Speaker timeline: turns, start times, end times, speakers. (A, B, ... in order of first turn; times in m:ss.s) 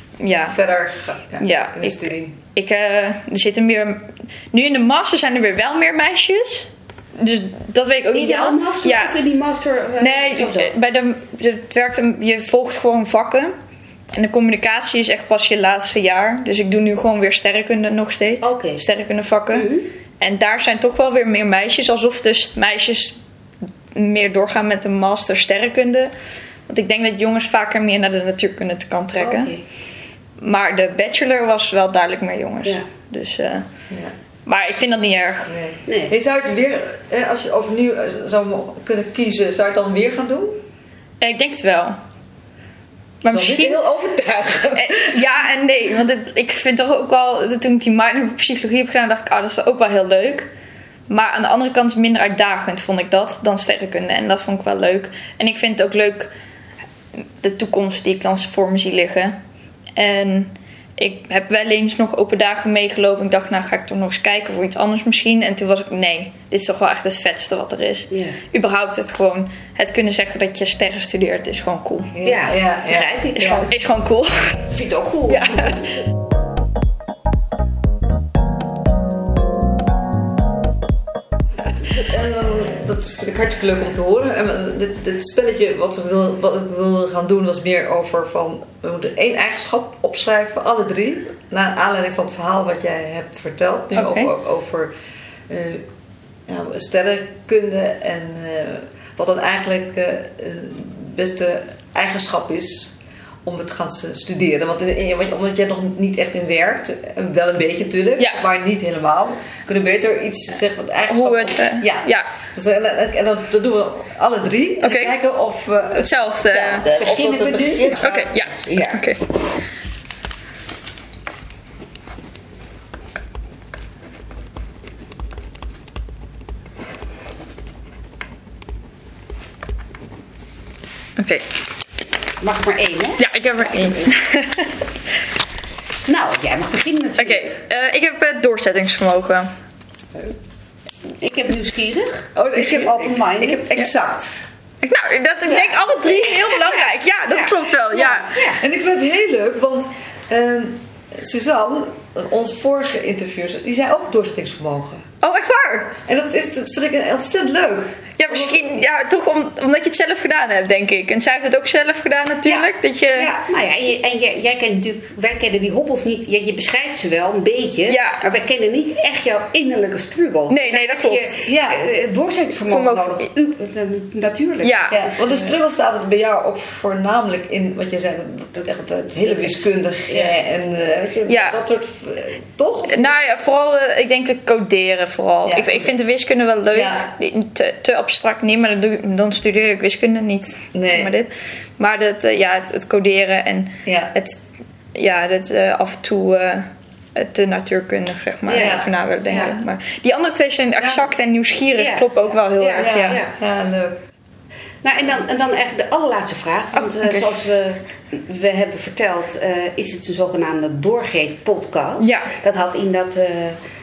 0:00.2-0:00.6 A
0:00.5-0:02.3 B
0:01.4-0:09.1 A
0:08.1-0:10.7 C
0:10.0-0:13.5 A
0:14.1-0:23.2 A
0:18.4-0:18.8 C
0:19.5-0:19.9 C
0:23.9-0:26.1 A
0:26.7-0:29.5 A
0:29.2-0:29.6 C
0:30.4-0:33.7 A
0:34.4-0:35.6 A
0:35.5-0:40.6 B
0:35.8-0:36.1 C
0:41.2-0:42.0 A
0:43.2-0:43.8 A
0:43.3-0:45.2 B
0:44.8-0:50.5 A
0:51.1-0:56.3 A
0:57.1-0:59.4 A
0:59.9-1:12.2 A
1:08.1-1:08.4 C
1:12.1-1:13.6 B
1:12.2-1:13.7 C
1:13.4-1:14.6 A
1:14.7-1:15.9 C
1:15.3-1:15.8 A
1:21.8-1:34.9 B
1:33.9-1:34.3 A
1:35.5-1:35.8 B
1:36.5-1:58.4 B
1:48.2-1:48.4 A
1:51.1-1:52.3 A
1:54.8-1:55.2 A
1:56.0-1:56.9 A
1:56.8-1:59.0 C
1:58.0-1:59.2 A
2:11.2-2:11.4 A
2:12.4-2:14.1 C
2:13.2-2:14.7 A
2:16.0-2:17.6 C
2:17.2-2:19.5 A
2:21.2-2:23.7 C
2:22.4-2:24.4 B
2:24.8-2:28.4 A
2:25.4-2:28.6 C
2:28.6-2:35.0 B
2:35.2-2:36.0 A
2:36.0-2:38.6 B
2:38.2-2:43.3 A
2:43.1-2:43.4 B
2:43.3-2:55.6 C
2:47.9-2:48.2 A
2:50.5-2:51.4 A
2:51.4-2:51.8 B
2:52.7-2:53.3 A
2:54.6-2:55.0 A
2:54.9-3:03.4 B
2:59.2-3:00.4 C
3:01.3-3:01.6 A
3:02.9-3:14.4 A
3:05.4-3:05.9 B
3:06.7-3:07.1 B
3:10.7-3:11.1 B
3:13.8-3:14.1 B
3:14.9-3:23.2 A
3:18.5-3:19.6 C
3:18.5-3:18.9 B
3:20.8-3:21.1 B
3:21.8-3:23.3 C
3:22.8-3:24.0 B
3:24.8-3:33.6 C
3:26.9-3:27.2 A
3:32.0-3:32.3 A